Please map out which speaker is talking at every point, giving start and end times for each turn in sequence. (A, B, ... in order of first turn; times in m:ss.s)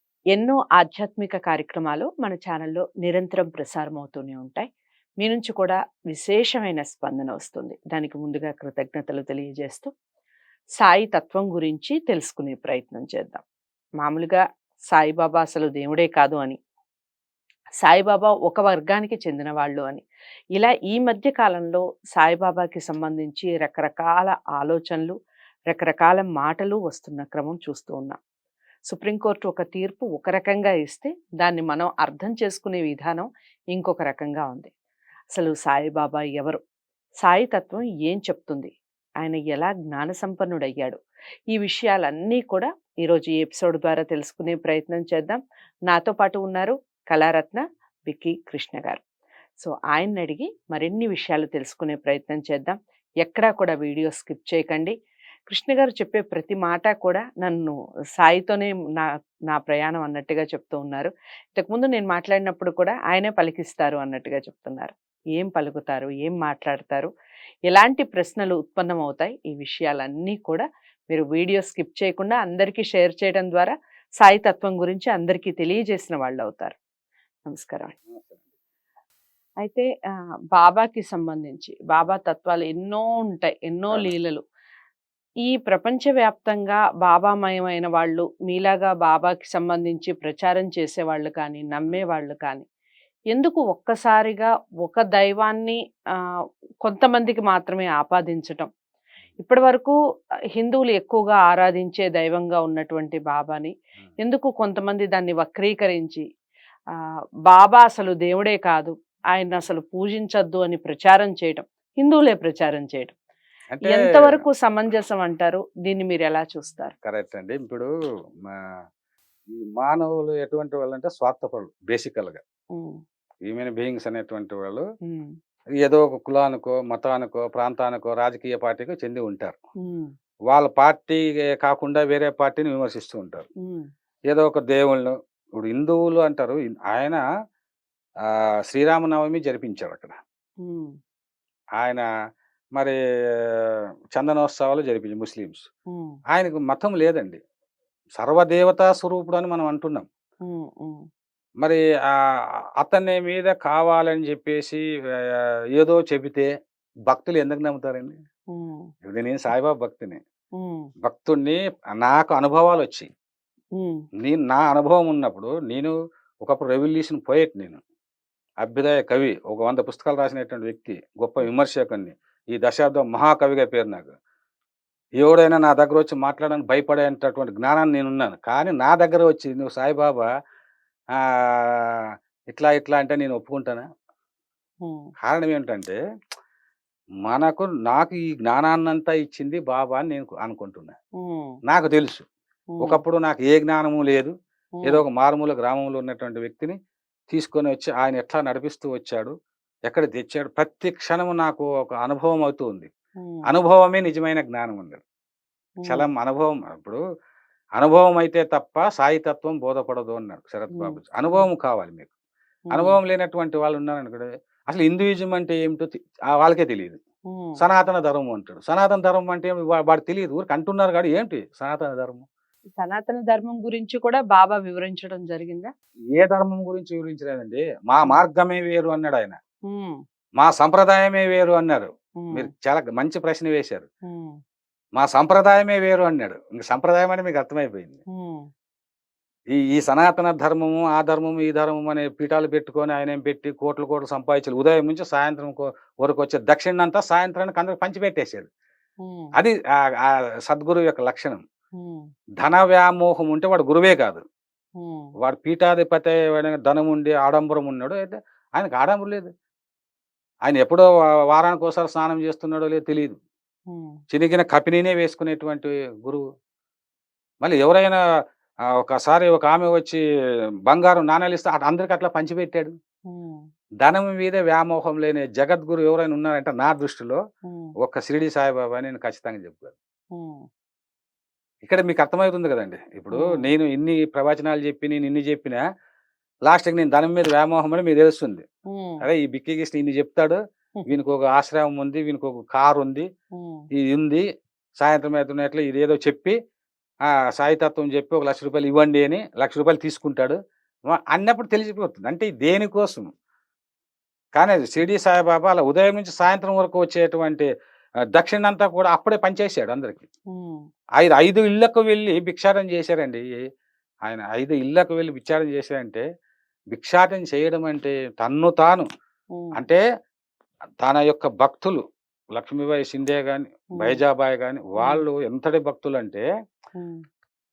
0:00.3-0:04.7 A
0:05.2-0:09.9 A
0:10.8-0:13.4 A
0:14.0-0:14.4 A
0:14.9-0:16.6 A
0:17.8-0:20.0 A
0:20.6-0:25.1 A
0:25.7-0:28.2 A
0:28.9-0:34.7 A
0:35.3-0:36.6 A
0:37.2-0:41.0 A
0:41.5-0:49.0 A
0:49.6-0:54.9 A
0:55.5-1:07.1 A
1:07.7-1:16.8 A
1:17.5-1:18.0 A
1:18.1-1:18.5 B
1:19.6-1:19.9 A
1:20.5-1:24.4 A
1:25.5-1:32.7 A
1:33.3-1:35.8 A
1:36.8-1:38.7 A
1:39.4-1:40.0 A
1:40.6-1:46.2 A
1:47.5-1:53.1 A
1:53.7-1:54.4 B
1:53.8-1:56.9 A
1:57.0-1:57.9 B
1:59.5-2:02.4 B
2:03.4-2:04.8 B
2:05.1-2:05.3 A
2:05.8-2:09.6 B
2:09.8-2:10.1 A
2:10.5-2:13.5 B
2:13.6-2:13.9 A
2:14.3-2:17.2 B
2:18.2-2:20.2 B
2:20.6-2:20.9 A
2:21.8-2:22.0 B
2:22.8-2:25.6 B
2:25.9-2:26.2 A
2:26.3-2:27.4 B
2:28.2-2:30.1 B
2:30.4-2:31.0 A
2:31.6-2:32.2 B
2:32.8-2:36.5 B
2:37.1-2:38.2 B
2:38.5-2:38.9 A
2:39.0-2:40.2 B
2:40.6-2:40.9 A
2:41.0-2:43.1 B
2:43.8-2:44.0 A
2:44.2-2:47.8 B
2:48.6-2:54.1 B
2:55.2-3:00.3 B
3:01.2-3:03.8 B
3:05.2-3:06.0 B
3:07.3-3:11.0 B
3:11.2-3:11.6 A
3:11.7-3:12.2 B
3:12.7-3:13.0 A
3:12.8-3:14.3 B
3:14.8-3:16.8 B
3:17.3-3:19.3 B
3:19.9-3:22.9 B
3:23.2-3:23.4 A
3:23.5-3:25.0 B
3:25.8-3:26.1 A
3:25.9-3:27.0 B
3:27.8-3:32.1 B
3:30.7-3:31.5 A
3:32.7-3:33.0 A
3:32.7-3:37.0 B
3:37.3-3:37.6 A
3:37.6-3:42.3 B
3:42.8-3:45.7 A
3:46.1-3:49.4 B
3:49.7-3:50.0 A
3:50.4-3:53.9 B
3:52.2-3:52.5 A
3:54.0-3:54.4 A
3:55.0-3:58.0 B
3:58.1-3:58.5 A
3:59.5-4:08.5 B
4:09.0-4:09.3 A
4:09.4-4:11.4 B
4:11.8-4:12.1 A
4:12.4-4:14.2 B
4:14.8-4:15.1 A
4:15.2-4:19.3 B
4:20.5-4:23.2 B
4:23.7-4:24.0 A
4:24.1-4:26.2 B
4:27.4-4:28.0 B
4:28.8-4:30.0 B
4:30.7-4:32.7 B
4:33.1-4:33.4 A
4:33.8-4:37.2 B
4:37.8-4:39.7 B
4:40.1-4:40.5 A
4:41.6-4:45.6 B
4:43.1-4:43.5 A
4:46.5-4:48.5 B
4:48.7-4:49.1 A
4:49.0-4:53.1 B
4:53.3-4:53.6 A
4:53.8-4:54.2 B
4:54.8-4:56.4 B
4:57.1-5:00.4 B
5:00.9-5:03.1 B
5:04.4-5:07.5 B
5:08.1-5:10.1 B
5:10.3-5:10.6 A
5:11.0-5:13.3 B
5:14.0-5:16.0 B
5:16.7-5:18.9 B
5:19.3-5:19.6 A
5:19.6-5:19.8 B
5:20.8-5:21.8 B
5:22.3-5:26.3 B
5:23.8-5:24.0 A
5:24.8-5:25.1 A